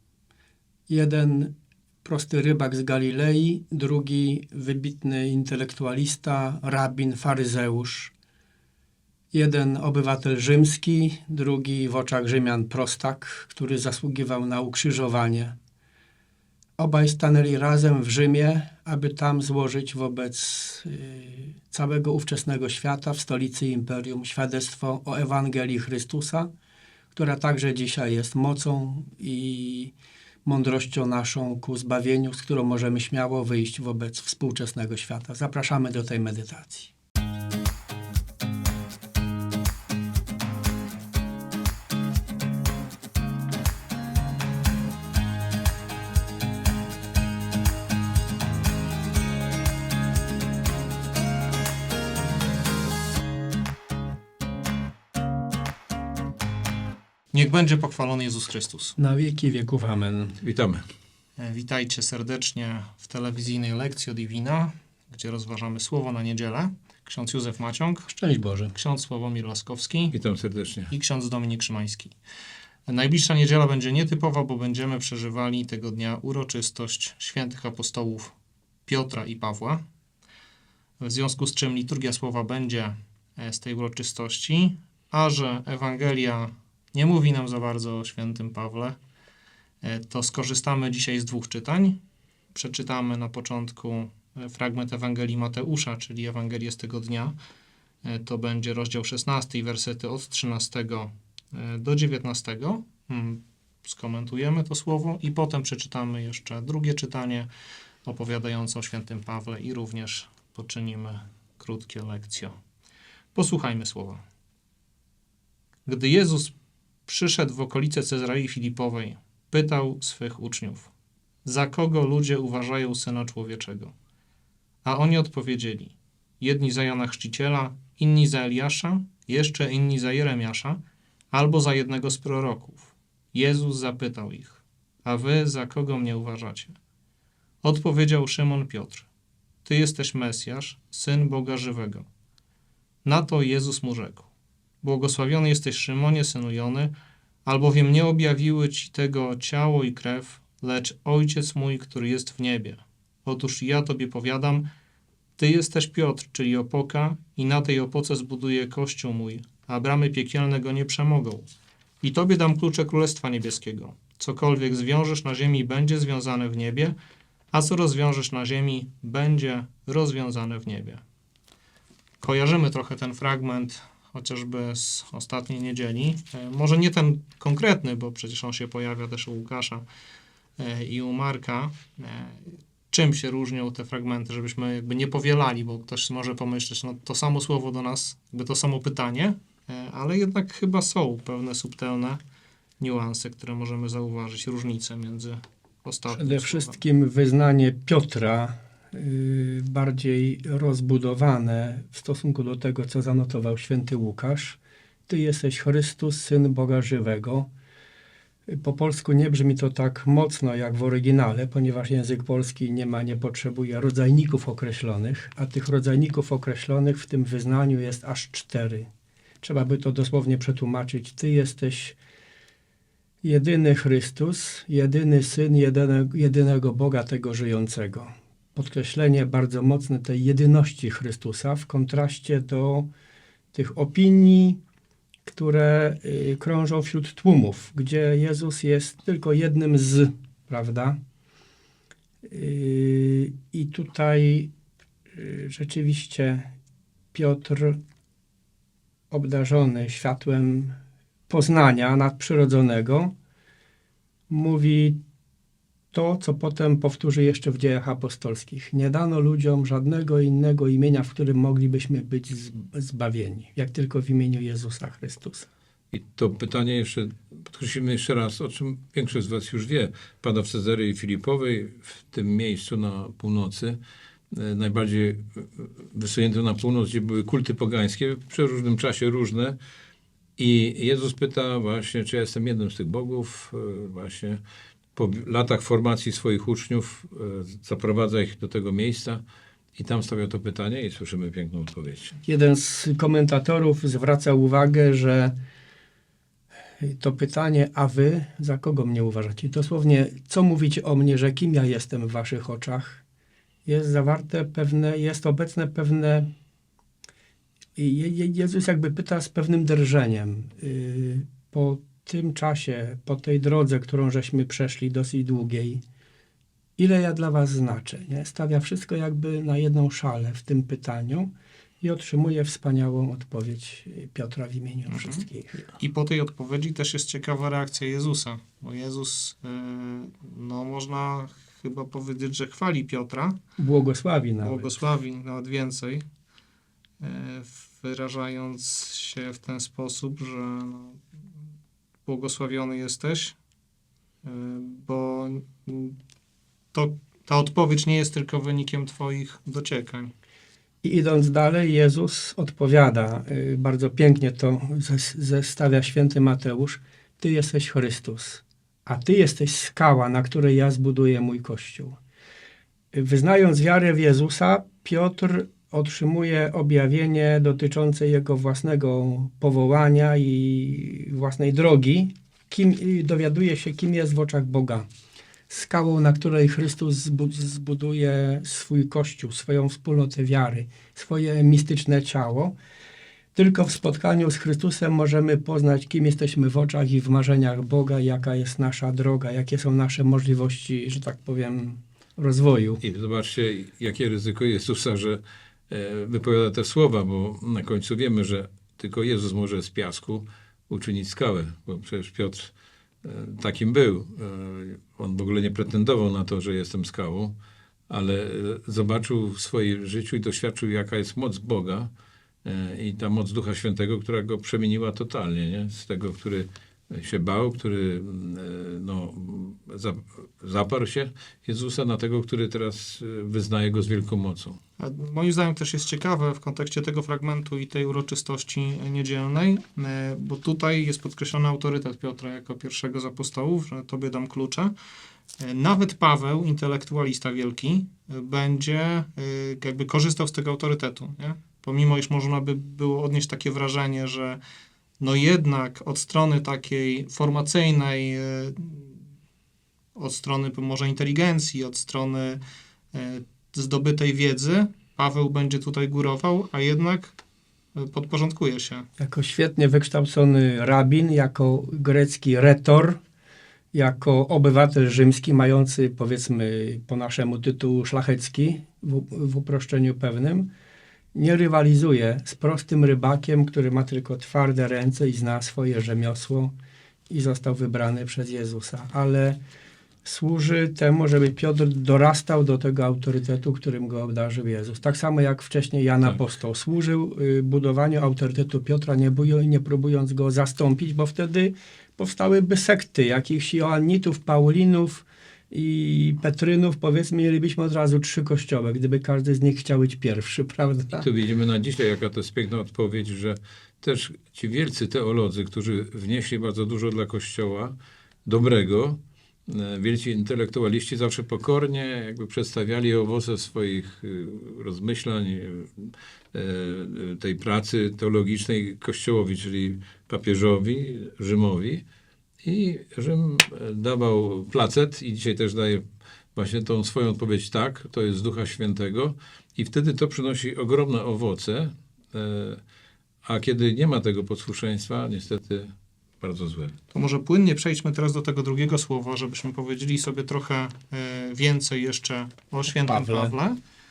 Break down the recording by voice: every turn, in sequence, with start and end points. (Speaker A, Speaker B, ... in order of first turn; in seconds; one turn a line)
Speaker A: 0.9-1.5
Speaker A: 2.0-8.1
Speaker A: 9.3-15.6
Speaker A: 16.8-26.5
Speaker A: 27.1-29.9
Speaker A: 30.4-36.9
Speaker B: 57.3-59.0
Speaker A: 59.0-60.4
Speaker C: 60.4-60.8
Speaker B: 61.4-68.1
Speaker A: 68.1-68.7
Speaker B: 68.7-70.2
Speaker C: 70.1-70.9
Speaker B: 70.9-72.2
Speaker B: 72.9-78.3
Speaker B: 78.9-79.8
Speaker B: 81.0-89.0
Speaker B: 89.8-92.0
Speaker B: 92.5-97.4
Speaker B: 98.0-107.5
Speaker B: 108.1-112.5
Speaker B: 113.3-114.2
Speaker B: 115.9-116.5
Speaker B: 117.1-120.9
Speaker B: 121.5-123.9
Speaker B: 124.8-130.8
Speaker B: 131.3-136.8
Speaker B: 137.6-139.1
Speaker B: 139.7-142.1
Speaker B: 143.1-144.3
Speaker B: 144.8-146.9
Speaker B: 147.5-154.7
Speaker B: 155.4-161.5
Speaker B: 162.0-166.9
Speaker B: 167.5-171.0
Speaker B: 172.2-179.8
Speaker B: 180.6-192.2
Speaker B: 192.8-196.8
Speaker A: 196.1-207.5
Speaker A: 208.5-218.9
Speaker A: 219.4-222.0
Speaker A: 223.2-232.9
Speaker A: 233.5-234.6
Speaker A: 235.3-241.0
Speaker A: 242.3-244.5
Speaker A: 245.1-246.5
Speaker A: 247.1-247.8
Speaker A: 249.1-250.8
Speaker A: 251.3-253.1
Speaker A: 254.3-255.0
Speaker A: 255.9-265.5
Speaker C: 265.9-273.8
Speaker C: 274.3-279.6
Speaker C: 280.4-284.4
Speaker C: 284.9-289.2
Speaker C: 289.8-292.2
Speaker A: 292.2-295.4
Speaker A: 296.8-303.0
Speaker A: 303.7-306.3
Speaker A: 307.8-315.8
Speaker A: 316.8-321.3
Speaker A: 321.8-325.7
Speaker B: 324.9-333.4
Speaker A: 333.6-334.7
Speaker B: 334.4-336.0
Speaker B: 337.0-341.0
Speaker B: 342.1-343.4
Speaker B: 344.2-346.0
Speaker B: 346.7-350.1
Speaker A: 350.8-362.0
Speaker A: 362.9-374.9
Speaker A: 375.5-382.6
Speaker A: 383.4-392.8
Speaker C: 392.8-407.4
Speaker C: 407.9-411.9
Speaker C: 412.4-424.6
Speaker B: 424.8-434.7
Speaker B: 435.4-444.4
Speaker B: 445.0-449.0
Speaker B: 450.0-452.4
Speaker B: 452.9-457.2
Speaker B: 457.8-458.9
Speaker A: 459.0-463.0
Speaker A: 463.7-470.5
Speaker A: 471.1-476.5
Speaker A: 477.1-479.4
Speaker A: 480.1-501.1
Speaker C: 500.9-521.8
Speaker C: 522.4-525.8
Speaker C: 526.4-532.6
Speaker C: 533.2-536.8
Speaker B: 536.9-543.6
Speaker A: 542.7-543.4